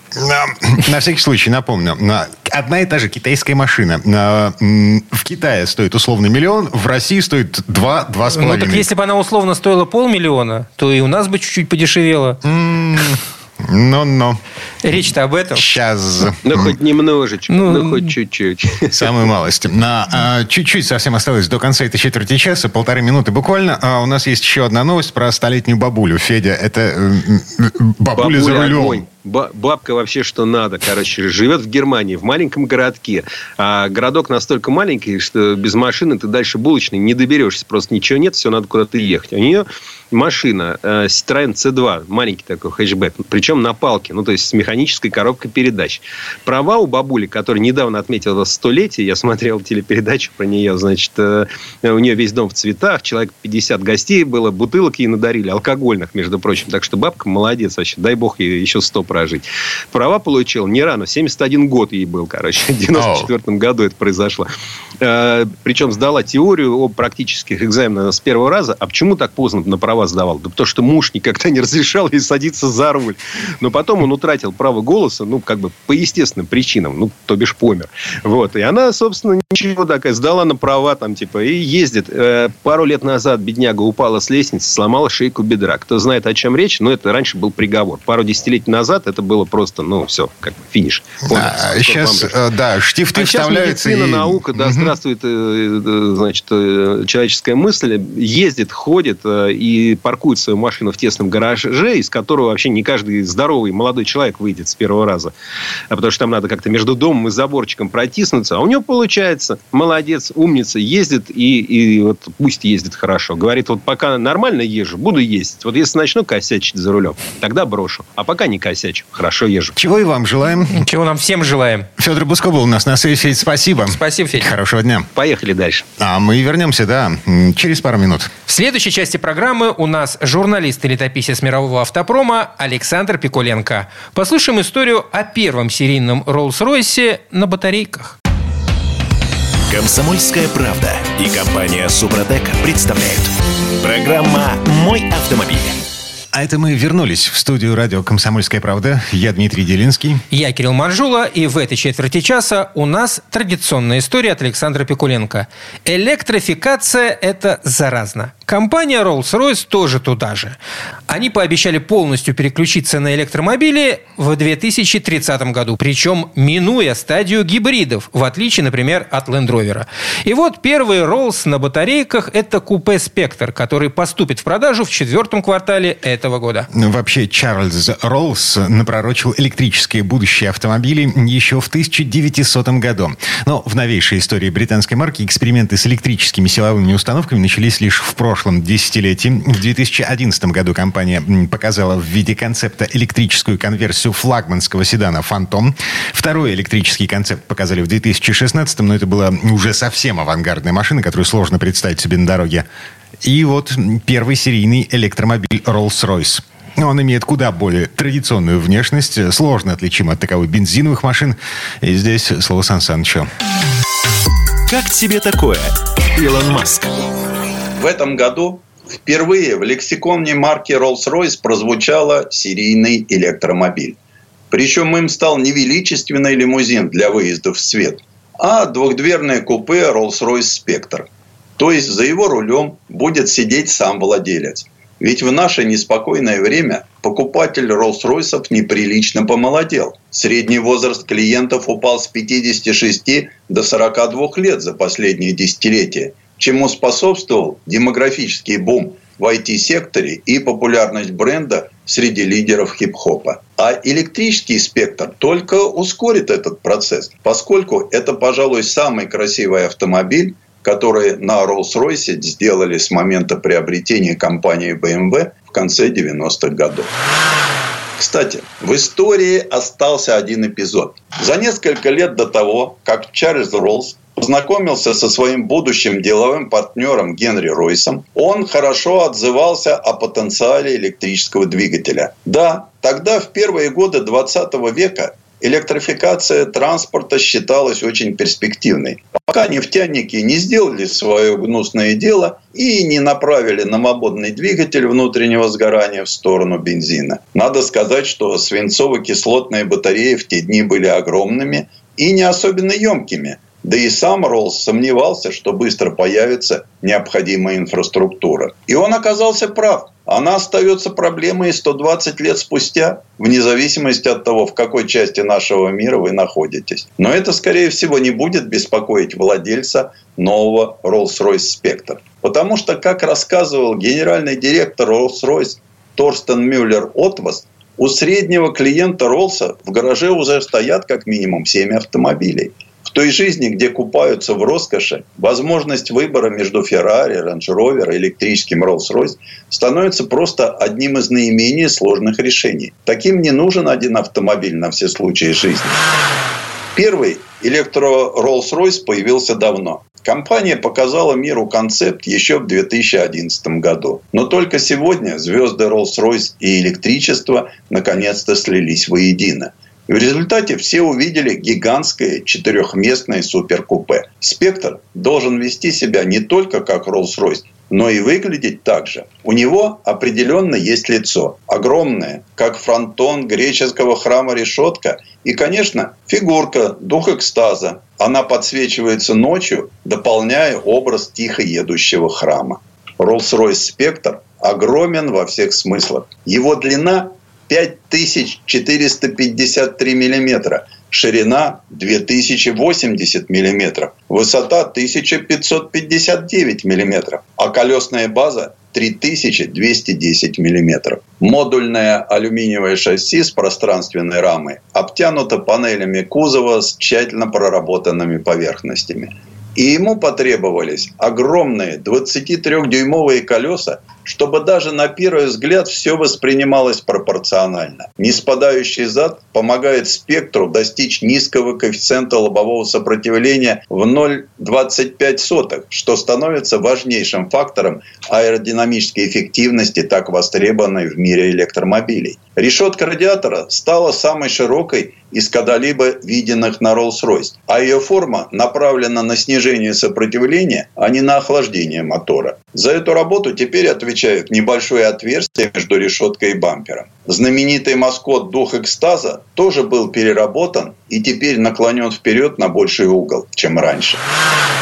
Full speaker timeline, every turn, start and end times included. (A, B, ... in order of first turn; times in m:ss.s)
0:00.2-0:08.9 A
0:08.3-0:12.4 B
0:12.4-0:14.4 A
0:14.8-0:15.6 B
0:15.5-0:16.8 A
0:16.4-0:19.1 C
0:17.5-0:18.1 B
0:18.9-0:29.0 A
0:28.2-1:04.5 C
1:02.9-1:03.3 A
1:05.0-1:32.4 C
1:31.3-1:34.9 A
1:33.1-1:45.3 C
1:45.9-1:59.8 C
1:59.8-2:00.8 A
2:00.7-2:01.9 B
2:02.0-2:05.1 A
2:03.9-2:04.5 B
2:05.1-2:05.8 C
2:06.0-2:08.3 A
2:08.5-2:18.2 B
2:19.7-2:25.8 D
2:26.3-2:30.2 A
2:30.3-2:40.6 B
2:41.1-2:56.7 B
2:56.7-3:22.6 A
3:23.2-3:33.3 A
3:34.7-3:37.0 D
3:37.8-3:44.0 E
3:44.5-4:26.9 E
4:28.0-5:45.8 E
5:46.7-7:34.0 E